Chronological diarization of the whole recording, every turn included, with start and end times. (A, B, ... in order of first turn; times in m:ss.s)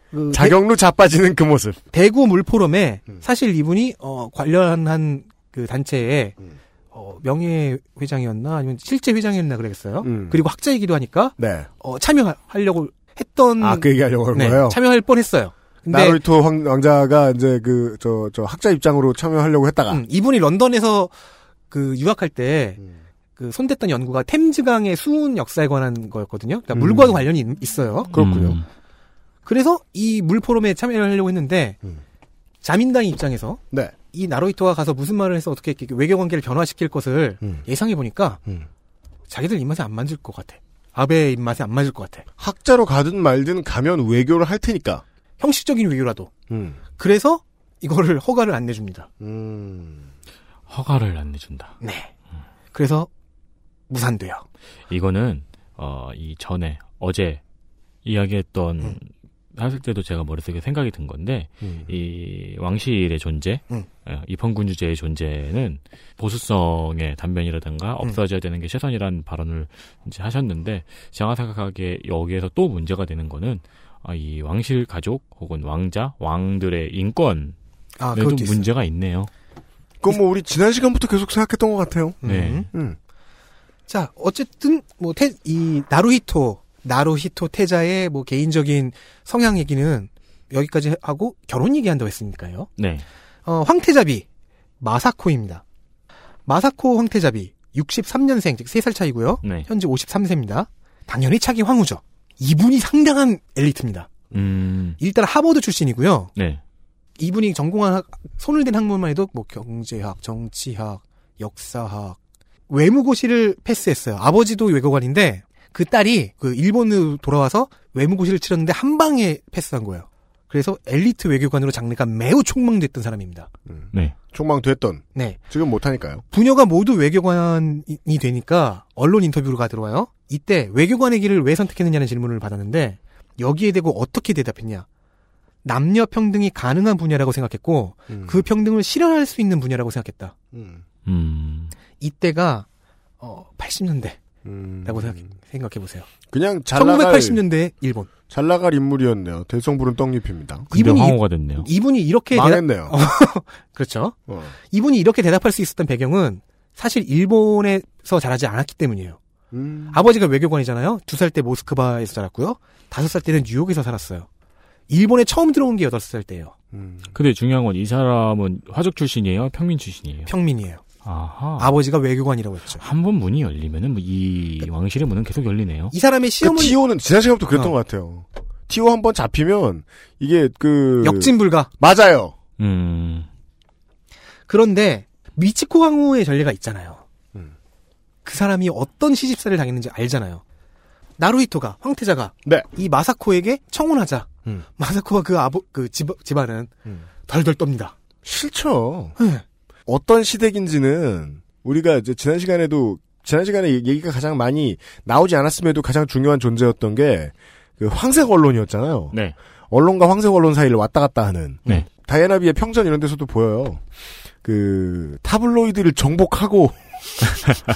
0:00.1-0:00.6 A
0:00.3-0:01.8 B
0:01.9-0:06.4 A
0:06.9-0:16.2 A
0:10.0-0:10.4 B
0:11.4-0:11.7 B
0:13.6-0:14.8 B
0:15.9-0:20.0 B
0:19.9-0:21.1 A
0:21.7-0:22.8 A
0:23.4-0:28.1 A
0:26.7-0:27.2 B
0:28.1-0:28.6 B
0:28.1-0:28.6 C
0:29.5-0:31.8 A
0:32.6-0:33.6 A
0:34.1-0:38.4 A
0:39.3-0:42.3 A
0:42.4-0:45.0 B
0:45.4-0:46.3 A
0:46.5-0:46.8 B
0:47.0-0:49.1 A
0:49.2-0:50.1 B
0:50.7-0:51.7 C
0:51.8-0:52.1 A
0:52.7-0:53.1 A
0:53.9-0:54.4 A
0:54.9-0:57.4 C
0:58.0-1:17.6 C
1:18.0-1:18.7 A
1:18.1-1:19.3 C
1:20.0-1:23.0 B
1:22.2-1:22.7 A
1:22.2-1:22.7 C
1:23.9-1:32.7 A
1:32.8-1:33.0 C
1:33.5-1:34.2 A
1:34.8-1:35.6 A
1:36.5-1:44.1 A
1:39.4-1:39.7 C
1:44.3-1:45.0 C
1:45.0-1:46.3 A
1:47.2-1:52.2 A
1:52.7-2:03.5 A
2:03.7-2:06.2 B
2:06.3-2:14.9 A
2:15.6-2:20.3 A
2:18.1-2:18.4 B
2:20.5-2:20.8 B
2:21.1-2:21.8 C
2:22.0-2:22.7 A
2:23.2-2:24.2 A
2:24.4-2:25.3 B
2:24.8-2:26.1 A
2:26.3-2:27.4 B
2:26.8-2:28.1 A
2:28.3-2:30.7 B
2:30.7-2:34.2 A
2:30.7-2:31.7 C
2:32.3-2:32.9 B
2:34.3-2:34.5 B
2:34.7-2:39.2 A
2:39.5-2:40.0 B
2:39.9-2:44.3 A
2:44.9-2:46.5 A
2:46.7-2:47.1 B
2:47.2-2:50.3 C
2:50.3-2:50.8 A
2:51.0-2:51.7 C
2:51.6-2:52.8 A
2:52.8-2:55.9 C
2:55.9-2:56.8 A
2:56.4-3:02.3 B
3:01.0-3:01.7 A
3:02.6-3:03.3 C
3:04.5-3:07.0 A
3:08.2-3:10.4 A
3:11.2-3:16.7 A
3:17.3-3:17.9 A
3:18.2-3:19.2 B
3:19.2-3:19.4 A
3:19.9-3:29.2 B
3:29.7-3:33.8 B
3:34.4-3:37.3 B